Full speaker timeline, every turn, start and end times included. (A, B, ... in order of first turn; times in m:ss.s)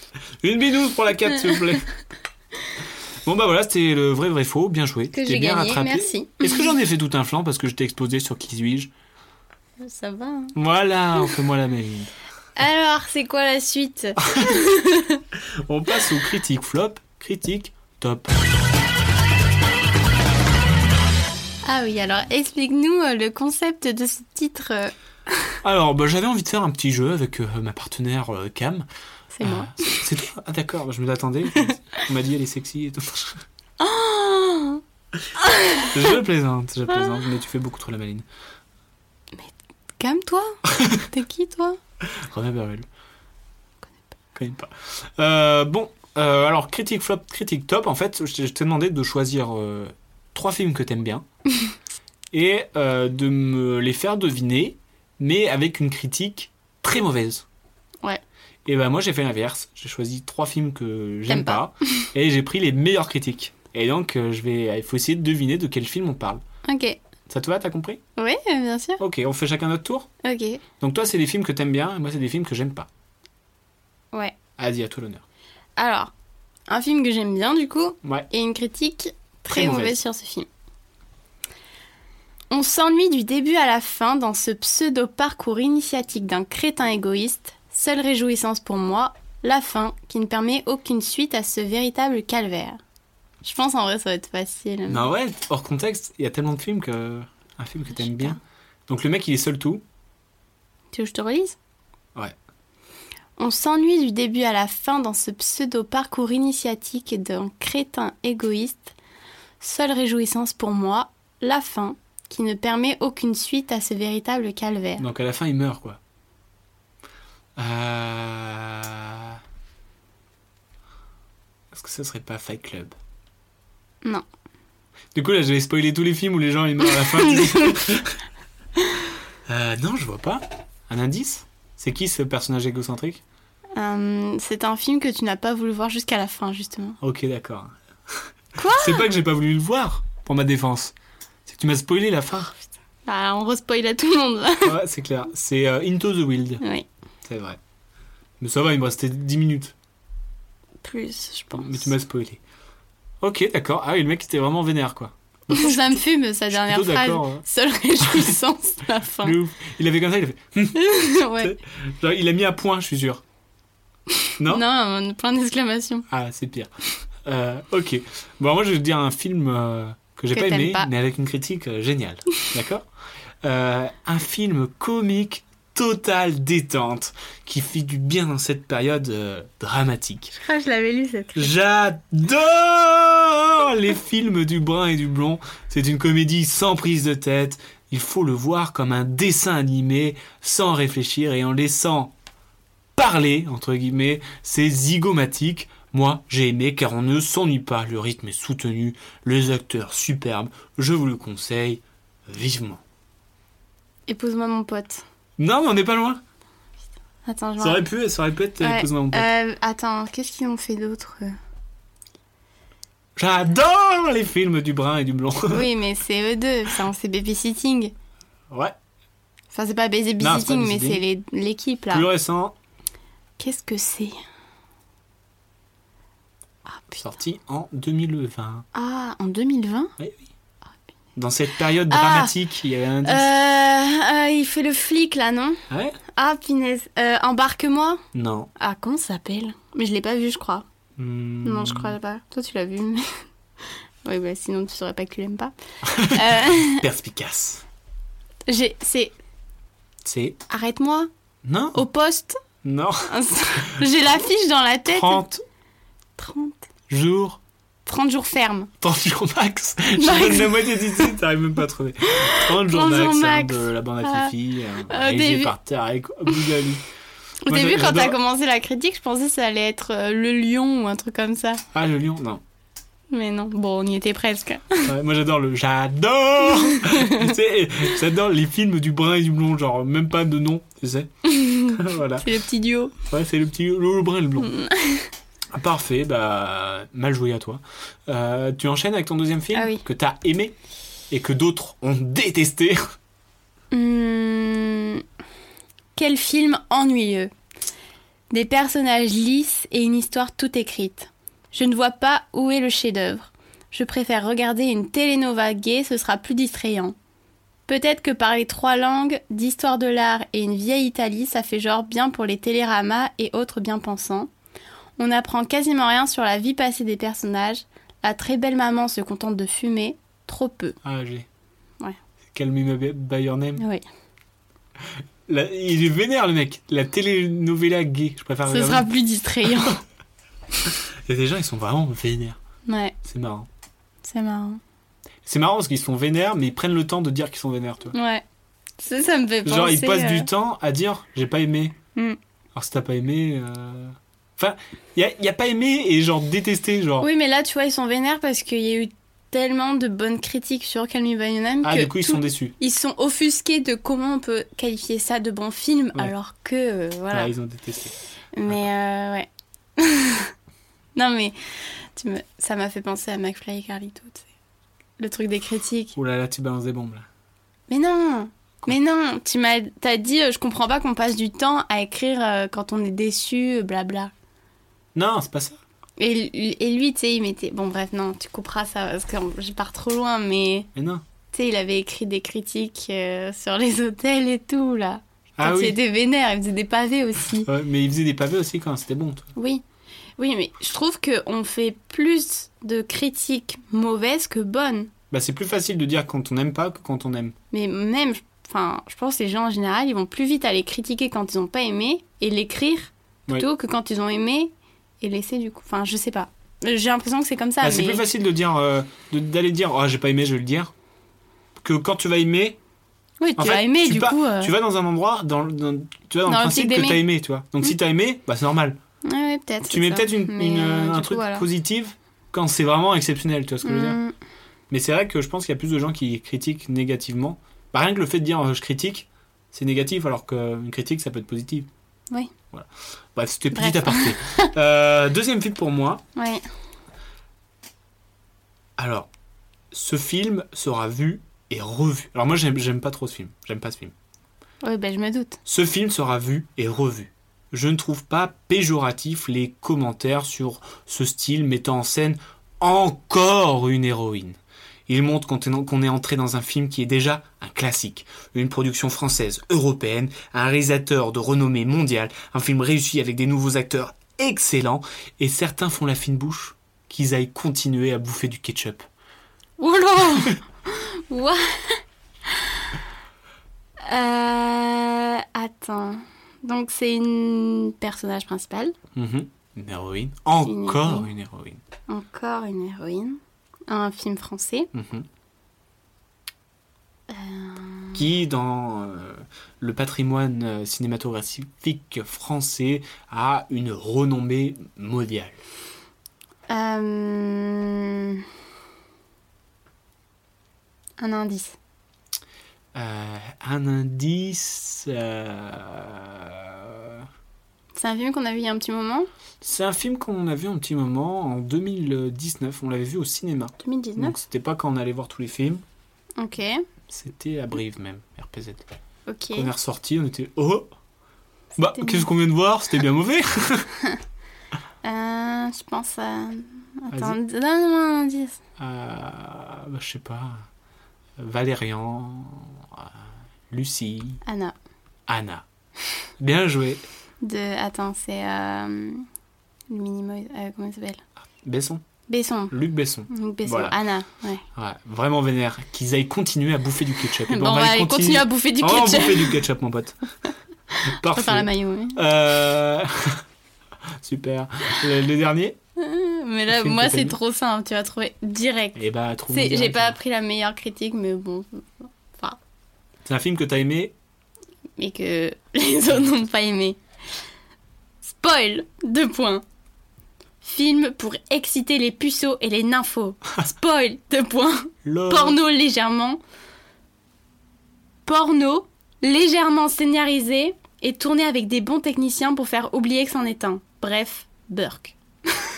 0:00.4-0:01.9 A
0:03.2-0:08.9 A
0:05.1-0:06.7 B
0:09.8-0:10.5 B
0:10.6-0:12.1 A
0:12.6-0:15.2 B
0:14.2-0:14.5 A
0:15.7-0:18.4 A
0:21.6-0:24.9 B
0:25.6-0:28.9 A
0:29.3-0:30.0 B
0:29.4-0:33.4 A
0:31.7-0:32.0 B
0:33.8-0:34.8 B
0:35.4-0:35.9 B
0:35.9-0:38.3 A
0:39.4-0:41.8 B
0:42.0-0:42.9 A
0:44.4-0:51.2 A
0:52.3-0:57.4 A
0:58.7-1:06.4 A
1:01.3-1:02.0 B
1:06.7-1:07.0 B
1:07.3-1:08.0 A
1:08.2-1:09.0 B
1:09.0-1:10.1 A
1:10.2-1:10.6 B
1:10.8-1:12.9 A
1:14.6-1:15.2 A
1:15.8-1:16.1 B
1:16.7-1:20.5 B
1:18.0-1:18.3 A
1:19.5-1:20.0 A
1:22.5-1:32.8 B
1:33.4-1:35.1 B
1:34.9-1:39.8 A
1:38.0-1:38.4 B
1:40.9-1:41.6 B
1:43.4-1:48.9 B
1:49.6-1:55.0 B
1:55.0-1:56.0 A
1:57.6-1:59.4 A
2:01.7-2:03.0 A
2:05.2-2:08.2 A
2:07.3-2:07.8 B
2:09.5-2:13.2 A
2:13.8-2:17.0 B
2:17.0-2:21.0 A
2:18.6-2:19.1 B
2:21.5-2:22.5 A
2:23.1-2:24.8 B
2:24.6-2:26.6 A
2:26.6-2:26.9 B
2:27.2-2:27.6 A
2:28.4-2:29.7 A
2:30.8-2:31.9 B
2:31.6-2:32.4 A
2:33.2-2:36.0 A
2:35.5-2:39.4 B
2:36.5-2:37.4 A
2:38.0-2:38.3 A
2:39.2-2:40.8 A
2:40.8-2:41.6 B
2:41.3-2:43.2 A
2:44.2-2:46.0 B
2:44.4-2:44.6 A
2:46.1-2:52.8 A
2:50.3-2:50.9 B
2:53.4-3:00.4 A
3:00.4-3:01.5 B
3:01.4-3:12.1 A
3:13.0-3:22.8 A
3:24.1-3:25.0 B
3:25.4-3:26.2 A
3:27.2-3:27.8 B
3:27.6-3:29.3 A
3:28.6-3:31.3 B
3:33.2-3:35.7 A
3:35.5-3:37.9 B
3:38.5-3:38.8 A
3:39.5-3:42.1 B
3:40.2-3:41.0 A
3:41.9-3:42.6 A
3:43.4-3:44.2 B
3:46.7-3:47.0 B
3:46.9-3:48.7 A
3:48.7-3:49.9 B
3:50.0-3:50.3 A
3:51.2-3:53.3 A
3:51.9-3:52.3 B
3:53.0-3:55.6 B
3:55.7-3:56.0 A
3:56.2-3:58.0 B
3:58.1-3:58.5 A
3:58.6-4:00.6 B
4:01.0-4:02.0 A
4:01.4-4:03.2 B
4:04.0-4:05.5 B
4:05.9-4:07.6 A
4:06.0-4:06.8 B
4:08.5-4:09.1 B
4:10.0-4:10.4 A
4:10.5-4:11.1 B
4:11.4-4:11.8 A
4:11.8-4:12.4 B
4:12.6-4:13.9 A
4:13.1-4:15.2 B
4:14.9-4:15.4 A
4:16.2-4:16.6 B
4:16.9-4:17.4 A
4:17.9-4:18.7 B
4:18.8-4:26.8 A
4:20.0-4:21.1 B
4:22.1-4:24.3 B
4:24.9-4:25.5 B
4:27.4-4:31.6 B
4:27.5-4:28.2 A
4:31.7-4:32.4 A
4:33.1-4:34.9 B
4:34.9-4:42.3 A
4:36.5-4:37.3 B
4:41.2-4:42.9 B
4:43.1-4:44.5 A
4:44.4-4:45.1 B
4:45.5-4:50.6 A
4:49.5-4:49.8 B
4:51.1-4:53.0 A
4:53.7-4:55.0 B
4:56.0-4:57.3 B
4:58.3-5:07.0 B
5:07.7-5:14.3 B
5:15.0-5:20.8 B
5:20.8-5:21.3 A
5:22.4-5:23.6 A
5:23.6-5:23.8 B
5:25.3-5:28.9 A
5:28.5-5:29.8 B
5:29.4-5:29.8 A
5:30.6-5:32.4 A
5:32.7-5:33.0 B
5:33.0-5:33.5 A
5:34.0-5:34.6 B
5:35.2-5:38.0 A
5:37.9-5:38.2 B
5:38.8-5:40.3 B
5:39.4-5:41.8 A
5:42.6-5:47.1 A
5:47.0-5:57.3 B
5:51.6-5:52.6 A
5:57.1-5:58.0 A
5:58.4-6:00.3 B
6:01.0-6:04.3 B
6:05.0-6:06.0 B
6:06.0-6:07.1 A
6:07.7-6:14.1 B
6:15.0-6:15.6 A
6:16.0-6:20.7 B
6:20.8-6:21.0 A
6:21.3-6:27.5 B
6:25.4-6:25.8 A
6:27.4-6:29.3 A
6:29.4-6:29.6 B
6:30.2-6:34.9 B
6:35.1-6:37.4 A
6:37.5-6:48.0 B
6:47.6-6:50.7 A
6:51.6-6:52.6 A
6:53.2-6:54.5 B
6:53.4-6:58.8 A
6:56.3-6:57.0 B
6:59.0-7:01.5 B
6:59.7-7:04.0 A
7:03.6-7:04.1 B
7:04.7-7:11.7 A
7:12.5-7:16.0 A
7:13.5-7:14.5 B
7:16.2-7:16.4 B
7:18.8-7:19.1 A
7:19.7-7:23.9 A
7:24.6-7:25.4 B
7:25.5-7:48.9 A
7:49.6-7:52.6 B
7:53.8-7:58.8 B
7:59.0-8:01.6 A
8:00.4-8:01.1 B
8:01.9-8:04.7 B
8:04.7-8:05.1 A
8:07.1-8:08.0 B
8:07.9-8:15.4 A
8:16.5-8:18.2 B
8:21.0-8:21.6 B
8:22.7-8:27.1 A
8:27.8-8:29.1 B
8:29.4-8:35.6 A
8:33.6-8:34.2 B
8:36.2-8:36.6 B
8:36.9-8:38.7 A
8:39.1-8:39.5 B
8:39.3-8:40.7 A
8:41.6-8:43.7 A
8:41.7-8:42.1 B
8:44.8-8:48.4 B
8:46.9-8:47.2 A
8:48.6-8:50.5 A
8:51.2-8:52.9 A
8:53.5-8:54.2 A
8:54.2-8:54.6 B
8:55.1-8:55.4 A
8:56.2-8:56.9 A
8:57.2-8:59.1 B
8:59.7-9:01.0 B
9:01.4-9:01.8 A
9:02.1-9:02.5 B
9:02.5-9:03.8 A
9:03.1-9:04.4 B
9:04.6-9:10.0 A
9:07.3-9:09.4 B
9:10.8-9:13.2 A
9:11.1-9:12.0 B
9:14.0-9:15.6 A
9:15.8-9:22.4 B
9:16.5-9:17.2 A
9:18.8-9:20.0 A
9:23.0-9:23.9 A
9:24.8-9:26.8 B
9:28.0-9:29.4 B
9:30.4-9:36.2 B
9:34.8-9:35.4 A
9:38.1-9:45.4 B